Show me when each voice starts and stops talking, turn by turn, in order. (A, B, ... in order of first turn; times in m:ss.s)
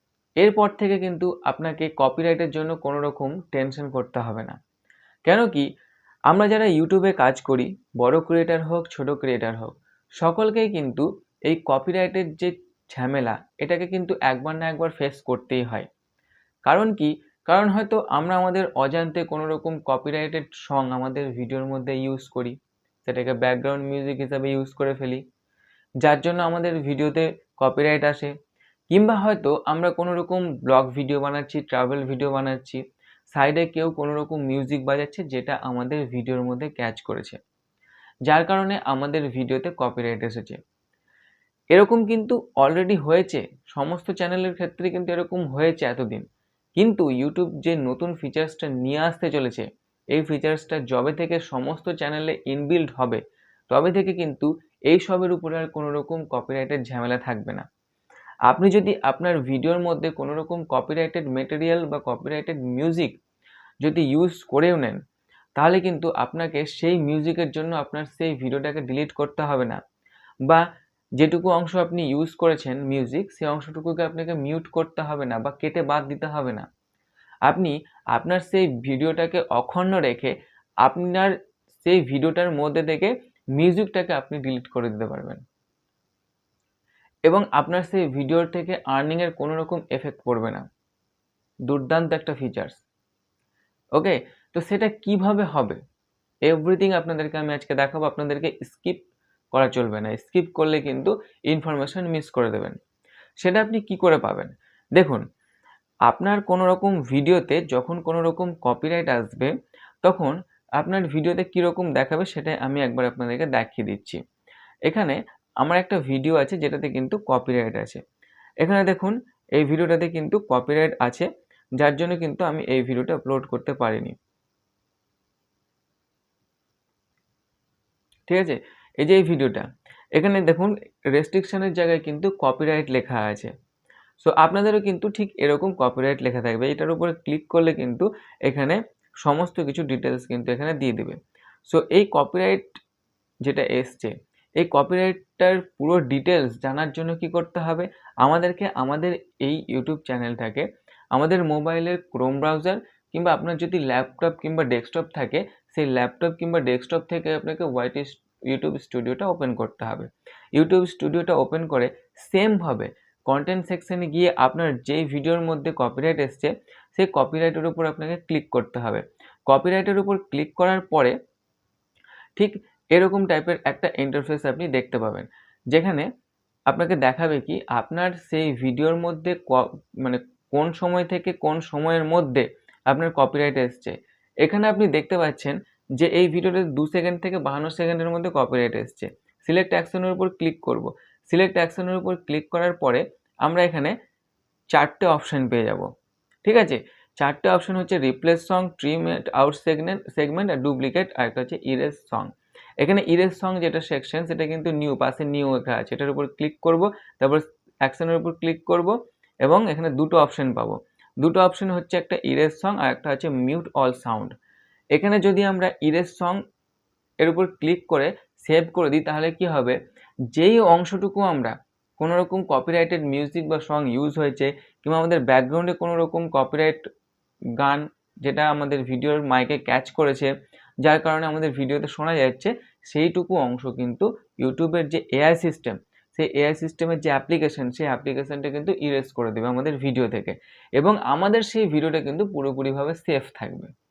0:00.4-0:04.6 A
0:05.3-0:05.6 A
0:06.3-0:15.9 A
0:16.7-0:25.2 A
0:26.0-0:28.3 A
0:28.9-0:37.4 A
0:38.3-0:40.6 A
0:41.7-0:46.2 A
0:46.8-0:57.7 A
0:58.5-1:03.1 A
1:03.8-1:05.0 A
1:05.6-1:09.8 A
1:11.2-1:16.7 A
1:17.5-1:25.4 A
1:27.3-1:30.7 A
1:31.7-1:32.8 A
1:34.0-1:35.8 A
1:36.5-1:39.0 A
1:39.5-1:42.8 A
1:43.4-1:45.2 A
1:46.1-1:49.5 A
1:50.0-1:54.2 A
1:54.9-1:58.0 A
1:58.6-2:04.2 A
2:08.3-2:13.5 A
2:14.2-2:22.7 A
2:23.4-2:51.2 A
2:52.4-2:56.1 A
2:56.7-3:13.9 A
3:14.7-3:15.9 A
3:16.4-3:34.3 A
3:35.0-3:36.4 A
3:37.2-3:39.8 A
3:40.3-3:46.8 A
3:47.6-3:50.3 A
3:50.8-4:03.7 A